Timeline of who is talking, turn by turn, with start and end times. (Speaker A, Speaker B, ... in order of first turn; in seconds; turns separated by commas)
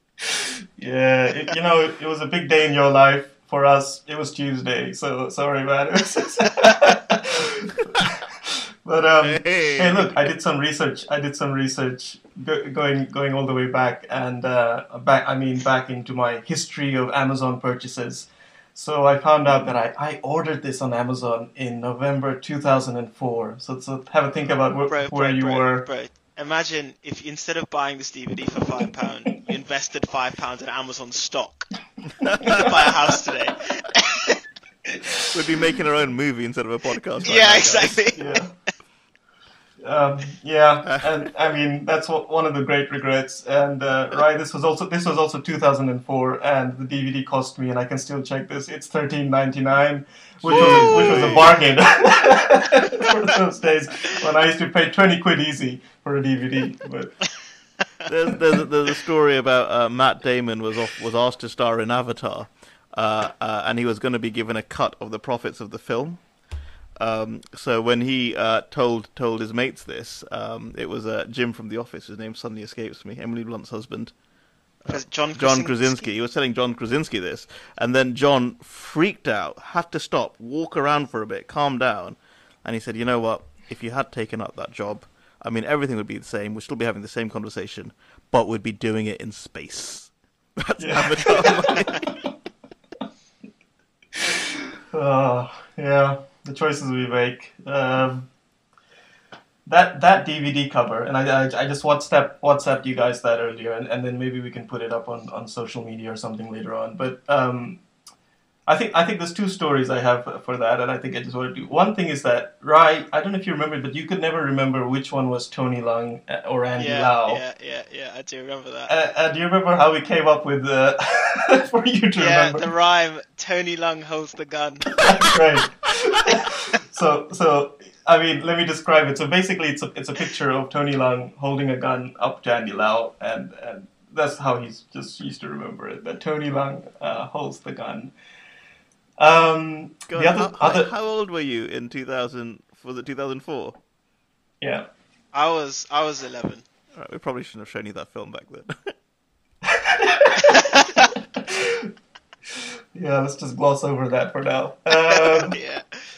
Speaker A: 0.2-25.9, Speaker B: 9.2-10.3, Speaker C: 24.9-31.7, Speaker B: 32.1-32.8, Speaker A: 32.4-32.9, Speaker C: 32.4-34.4, Speaker A: 35.0-35.3, Speaker B: 35.3-38.0, Speaker C: 37.2-38.2, Speaker A: 38.1-38.5, Speaker A: 39.8-57.2, Speaker B: 40.9-41.3, Speaker B: 50.4-51.6, Speaker B: 58.1-66.2, Speaker B: 67.0-74.1, Speaker B: 74.8-92.1, Speaker C: 74.9-76.1, Speaker A: 90.8-92.2, Speaker A: 94.2-98.3, Speaker A: 99.7-107.8, Speaker A: 108.7-117.4, Speaker C: 116.8-118.9, Speaker A: 118.9-122.7, Speaker C: 122.2-125.1, Speaker A: 125.0-138.1, Speaker A: 139.2-140.9, Speaker B: 140.1-143.8, Speaker A: 144.6-144.9, Speaker C: 145.3-146.7, Speaker B: 146.9-148.9, Speaker A: 149.7-151.9, Speaker C: 150.4-151.1, Speaker A: 152.6-155.6, Speaker C: 155.1-156.0